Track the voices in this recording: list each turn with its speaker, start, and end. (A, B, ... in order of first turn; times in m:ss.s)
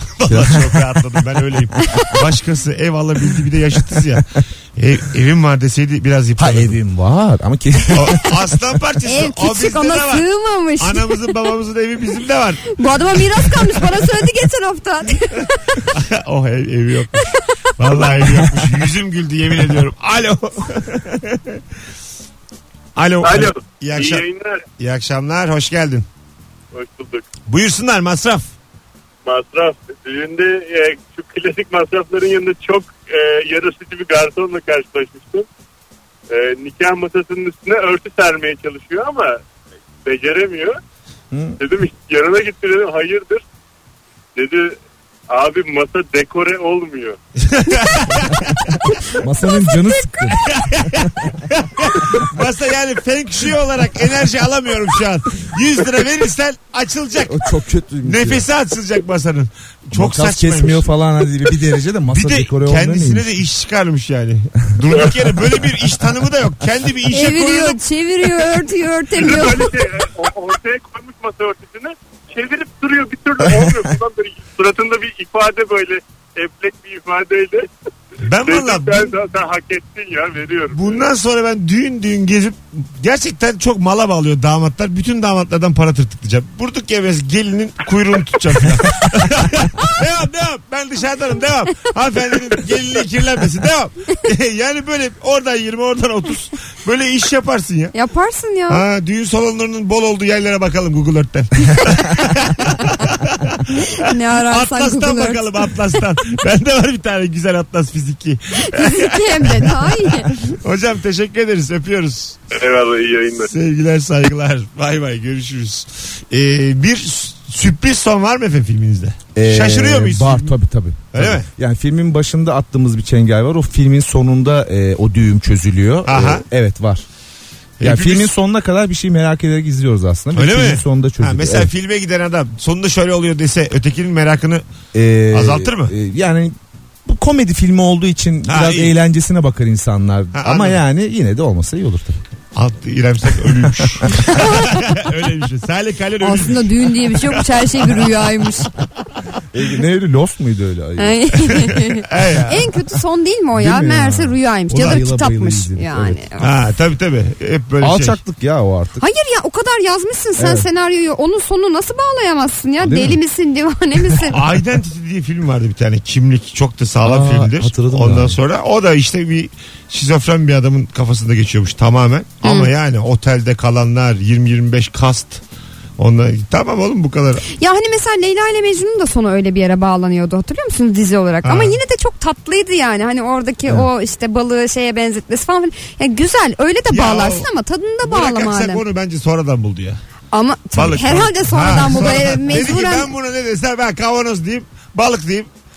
0:00.2-0:06.8 A
0:00.3-0:00.9 B
0:06.4-0:08.6 B
0:07.9-0:10.2 A
0:09.1-0:11.5 C
0:10.8-0:12.7 A
0:12.6-0:15.8 C
0:13.4-0:13.6 A
0:15.9-0:17.3 A
0:17.8-0:21.6 A
0:17.9-0:18.2 C
0:23.0-0:24.2 A
0:23.2-0:24.6 D
0:24.8-0:26.1 A
0:26.7-0:27.3 D
0:27.5-0:28.5 A
0:29.2-0:35.5 D
0:36.3-0:39.4 D
0:40.0-0:40.8 D
0:41.3-0:41.6 B
0:41.6-0:43.4 D
0:44.4-0:44.8 D
0:45.3-0:47.2 D
0:47.4-0:48.8 A
0:49.2-0:51.3 B
0:50.3-0:57.4 A
0:57.2-0:58.4 B
0:58.0-1:00.9 A
0:59.9-1:03.3 B
1:02.1-1:07.8 A
1:07.1-1:09.8 C
1:09.2-1:17.7 D
1:13.4-1:13.8 B
1:18.2-1:19.1 A
1:18.4-1:21.0 D
1:20.7-1:37.9 A
1:37.9-1:38.8 C
1:38.7-1:52.4 A
1:44.0-1:45.5 C
1:48.7-1:50.3 C
1:52.5-1:53.5 D
1:53.5-2:00.5 A
1:59.4-2:07.1 B
2:01.1-2:01.5 A
2:06.1-2:06.4 A
2:07.8-2:08.3 A
2:07.8-2:11.7 B
2:10.3-2:14.6 A
2:14.9-2:22.2 B
2:15.3-2:15.9 A
2:18.5-2:18.9 A
2:20.4-2:20.8 A
2:22.6-2:28.3 A
2:24.3-2:24.8 C
2:26.2-2:28.7 C
2:29.5-2:31.6 B
2:31.0-2:36.5 C
2:32.1-2:32.7 A
2:33.5-2:36.2 B
2:34.8-2:35.0 A
2:36.4-2:38.2 A
2:37.8-2:39.0 B
2:39.0-2:44.4 C
2:40.4-2:40.7 B
2:42.8-2:43.2 B
2:44.3-2:55.4 A
2:47.0-2:48.4 B
2:52.4-2:52.7 C
2:56.0-2:57.4 A
2:57.5-3:08.8 C
3:01.4-3:01.8 A
3:06.9-3:07.5 A
3:08.0-3:10.0 A
3:10.3-3:13.1 C
3:10.8-3:15.5 A